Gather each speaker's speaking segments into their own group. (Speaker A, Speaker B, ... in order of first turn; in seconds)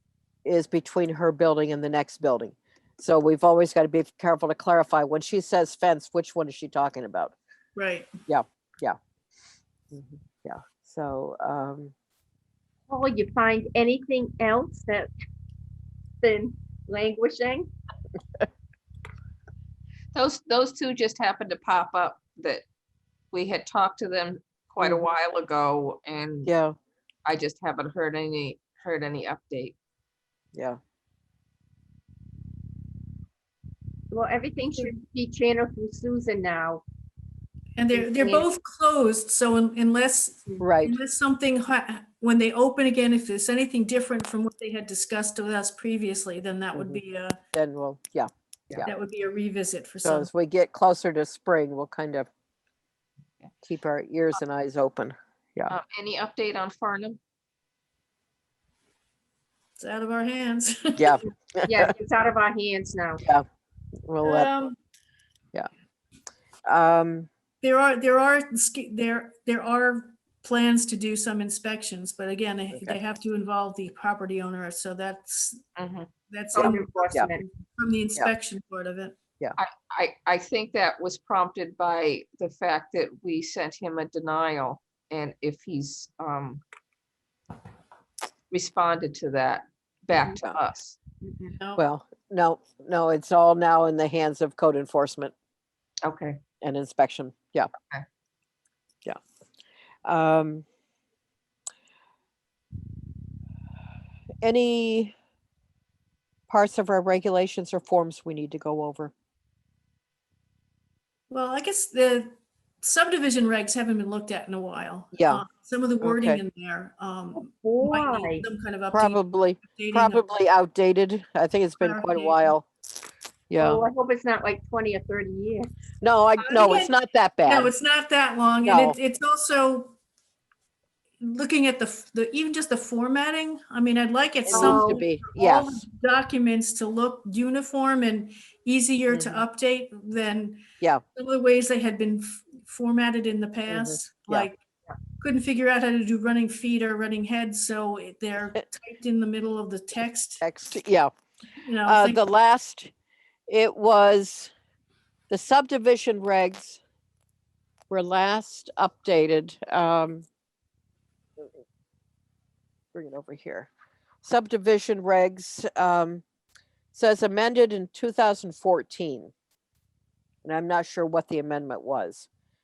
Speaker A: 0.4-7.3, 8.3-9.0, 9.9-11.9, 24.8-25.1, 26.4-26.7, 40.6-41.0, 46.7-47.0, 47.5-48.9, 50.0-52.3, 53.6-55.8, 61.0-61.9, 64.1-64.5, 66.7-67.3, 76.6-77.3, 91.8-95.3, 96.6-97.7, 100.0-100.7, 104.4-105.1, 106.5-109.1, 115.1-115.4, 116.0-116.4, 118.9-122.7, 123.5-123.8, 126.0-127.7, 128.6-128.9, 134.4-135.8, 139.1-139.4, 143.7-144.5, 150.4-151.1, 151.8-152.9, 153.5-154.5, 155.3-156.8, 157.9-160.2, 162.9-163.7, 164.2-166.2, 166.9-169.3, 170.4-172.3
Speaker B: 7.8-8.1, 37.8-47.4, 48.9-50.3, 59.8-61.2, 64.2-64.7, 67.6-75.6, 76.3-79.2, 111.3-120.2, 121.8-122.5, 126.4-126.9, 127.5-129.9, 131.2-140.6, 141.1-144.6, 145.2-150.4, 151.6-152.2
Speaker C: 12.9-15.1, 16.2-17.7, 34.1-36.8, 37.9-38.5, 61.6-63.2, 76.5-77.5, 90.1-90.4, 91.2-91.5, 117.4-118.4, 123.6-125.7, 134.5-135.0
Speaker D: 20.1-22.6, 23.3-26.5, 27.2-29.7, 55.7-57.2, 75.8-76.1, 79.6-86.6, 88.5-91.0, 96.0-96.4